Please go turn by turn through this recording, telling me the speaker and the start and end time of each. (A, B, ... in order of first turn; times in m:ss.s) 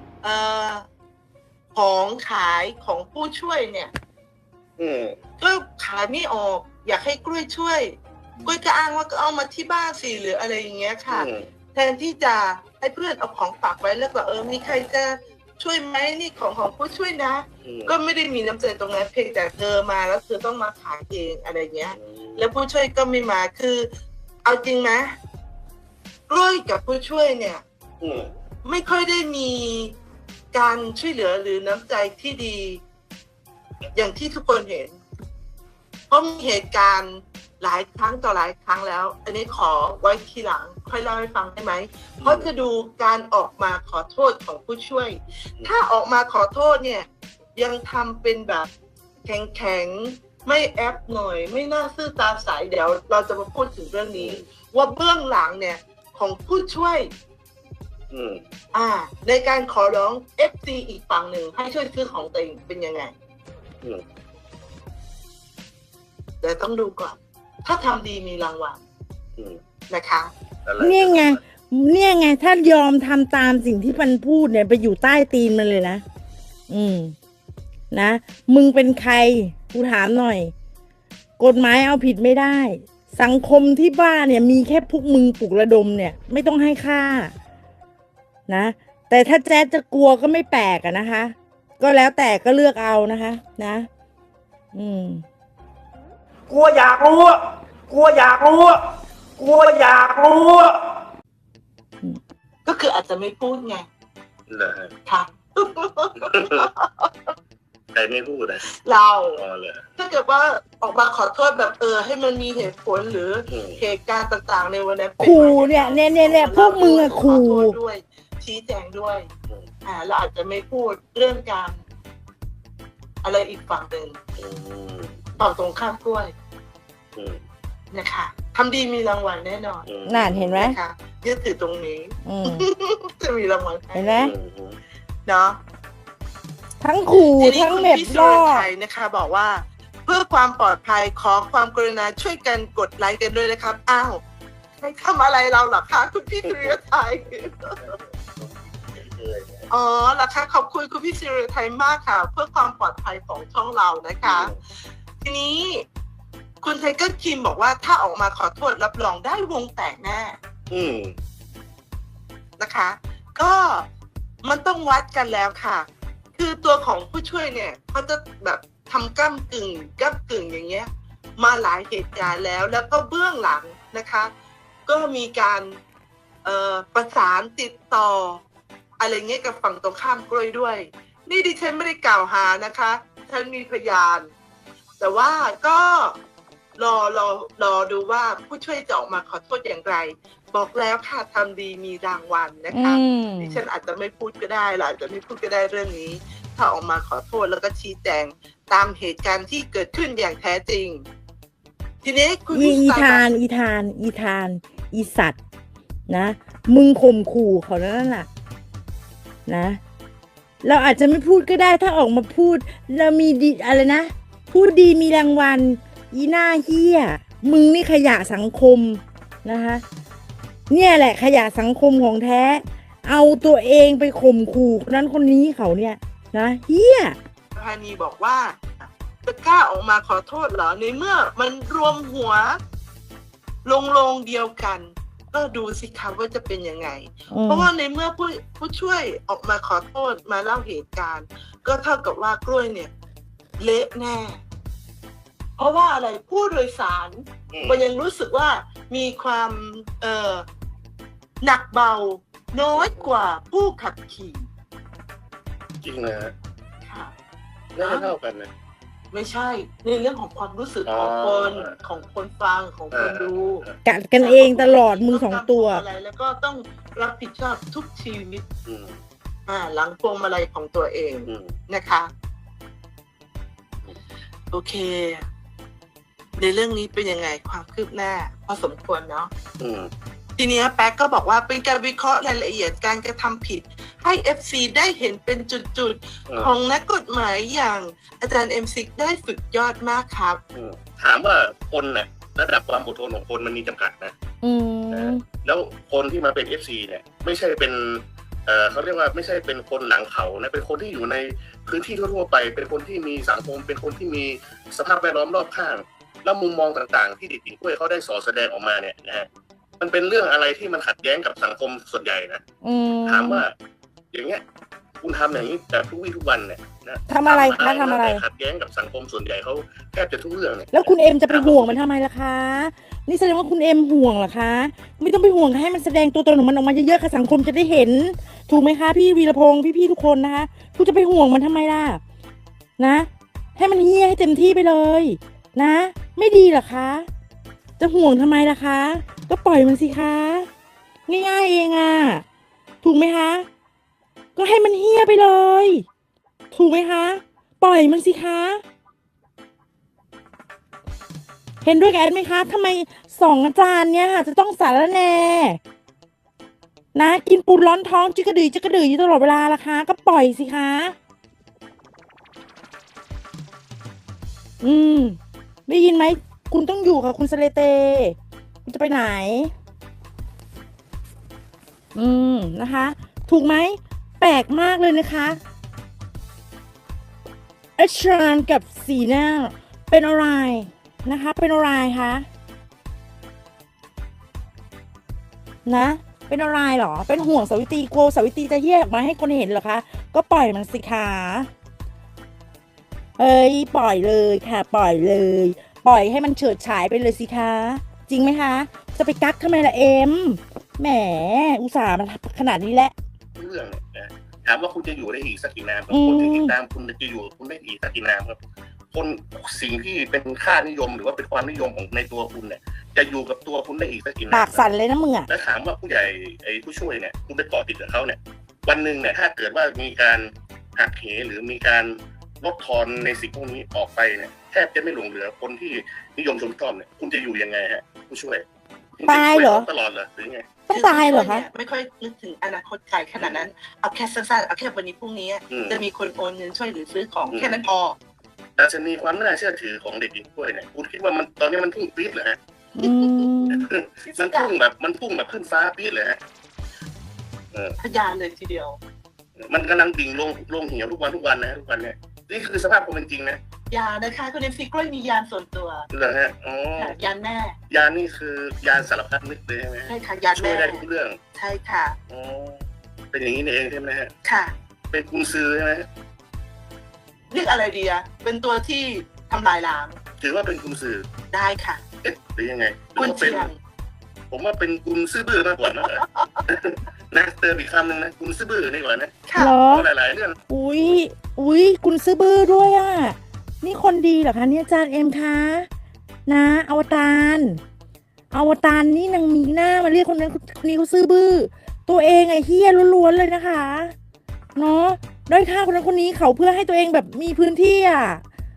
0:00.2-0:00.8 A
0:01.7-0:03.9 A
0:04.8-0:05.2 B
0:05.4-0:23.9 A
0:11.1-0:11.5 B
0:17.6-0:17.9 B
0:21.9-0:22.5 B
0:24.4-0:25.2 A
0:26.3-0:27.6 A
0:28.0-0:28.3 B
0:28.6-0:30.0 A
0:30.5-0:32.8 A
0:33.9-0:35.0 A
0:36.1-0:48.7 A
0:42.2-0:42.5 B
0:49.2-0:57.1 A
0:54.2-0:54.4 B
0:58.1-0:58.4 B
0:58.7-1:03.1 A
1:06.4-1:08.8 A
1:09.9-1:10.3 A
1:10.6-1:11.4 B
1:10.8-1:16.0 C
1:16.7-1:17.1 C
1:17.9-1:20.5 C
1:21.4-1:27.3 C
1:28.5-1:33.9 C
1:34.7-1:35.2 C
1:36.5-1:37.4 D
1:37.9-1:38.8 D
1:39.4-1:40.7 D
1:42.6-1:43.9 A
1:44.5-1:44.9 B
1:45.0-1:47.3 A
1:46.2-1:46.7 B
1:47.9-1:48.6 B
1:48.8-1:49.4 A
1:49.4-1:49.8 B
1:50.0-1:59.3 A
1:53.5-1:53.8 B
1:55.2-1:57.8 C
1:59.8-2:01.8 A
2:03.2-2:04.2 A
2:04.4-2:05.2 B
2:05.4-2:06.3 A
2:07.9-2:09.8 A
2:09.8-2:10.6 B
2:10.0-2:10.8 C
2:10.6-2:14.2 A
2:12.2-2:12.7 C
2:13.9-2:14.3 C
2:14.2-2:14.8 B
2:15.2-2:15.6 A
2:16.8-2:18.7 C
2:17.4-2:24.2 A
2:24.8-2:27.8 A
2:26.4-2:26.8 B
2:27.8-2:29.7 B
2:29.7-2:34.5 A
2:34.2-2:34.6 B
2:35.2-2:35.8 A
2:36.6-2:40.4 A
2:40.7-2:41.1 B
2:42.6-2:43.8 A
2:44.4-2:54.3 A
2:54.8-2:55.8 A
2:56.4-2:58.4 A
2:59.0-3:04.3 A
3:05.0-3:06.2 A
3:06.8-3:21.0 A
3:12.7-3:13.6 C
3:22.0-3:23.3 A
3:22.5-3:25.4 C
3:26.1-3:28.3 C
3:29.4-3:29.8 C
3:30.6-3:39.8 C
3:40.7-3:47.2 C
3:47.5-3:52.6 A
3:53.6-4:02.9 A
3:57.3-3:57.7 C
4:03.6-4:04.4 A
4:05.6-4:10.4 A
4:07.5-4:07.8 B
4:11.4-4:14.4 A
4:15.8-4:16.3 B
4:16.8-4:17.1 A
4:17.7-4:18.5 B
4:17.8-4:18.1 A
4:19.1-4:23.6 A
4:20.8-4:21.7 B
4:22.9-4:23.8 B
4:23.8-4:25.8 C
4:24.2-4:28.4 A
4:28.6-4:29.0 B
4:29.5-4:32.1 A
4:31.3-4:31.5 B
4:34.5-4:35.2 A
4:36.4-4:39.3 A
4:39.6-4:39.9 B
4:40.4-4:50.4 A
4:50.5-4:54.1 B
4:54.4-4:55.2 C
4:54.9-5:09.3 B
5:09.8-5:12.4 B
5:12.6-5:13.4 C
5:13.0-5:13.5 B
5:14.1-5:14.4 B
5:15.0-5:21.8 B
5:17.1-5:18.2 C
5:20.7-5:32.0 C
5:32.8-5:37.1 C
5:37.8-5:40.5 C
5:41.1-5:42.2 C
5:42.8-5:43.4 C
5:44.4-5:45.8 C
5:46.5-5:48.6 C
5:51.6-5:55.6 C
5:56.9-6:00.9 C
6:04.6-6:09.5 C
6:11.9-6:15.4 C
6:17.8-6:22.3 C
6:25.6-6:31.5 C
6:33.2-6:42.9 C
6:43.4-6:48.4 B
6:45.9-6:46.5 C
6:48.9-6:54.7 B
6:54.3-6:55.3 C
6:55.3-7:00.2 B
7:00.8-7:08.4 B
7:09.0-7:10.5 B
7:09.0-7:09.7 C
7:10.7-7:11.5 C
7:10.7-7:18.0 A
7:13.2-7:13.4 B
7:15.5-7:15.8 B
7:17.3-7:17.6 B
7:18.6-7:22.4 B
7:22.8-7:23.7 C
7:23.5-7:26.2 B
7:24.0-7:24.5 A
7:27.8-7:28.8 A
7:29.4-7:33.4 B
7:33.7-7:35.9 A
7:35.9-7:36.9 B
7:36.8-7:37.6 A
7:37.7-7:41.2 B
7:39.9-7:40.8 A
7:41.3-7:42.0 A
7:42.1-7:44.1 B
7:44.2-7:44.5 A
7:44.9-7:45.9 B
7:47.3-7:50.0 A
7:50.2-7:51.0 B
7:51.3-7:51.8 A
7:52.0-7:53.5 B
7:53.0-7:53.6 A
7:54.3-8:00.4 B
7:55.9-7:56.4 A
7:59.3-7:59.6 A
7:59.4-7:59.9 C
8:00.5-8:05.7 C
8:06.2-8:07.6 C
8:08.3-8:13.9 C
8:14.6-8:18.2 C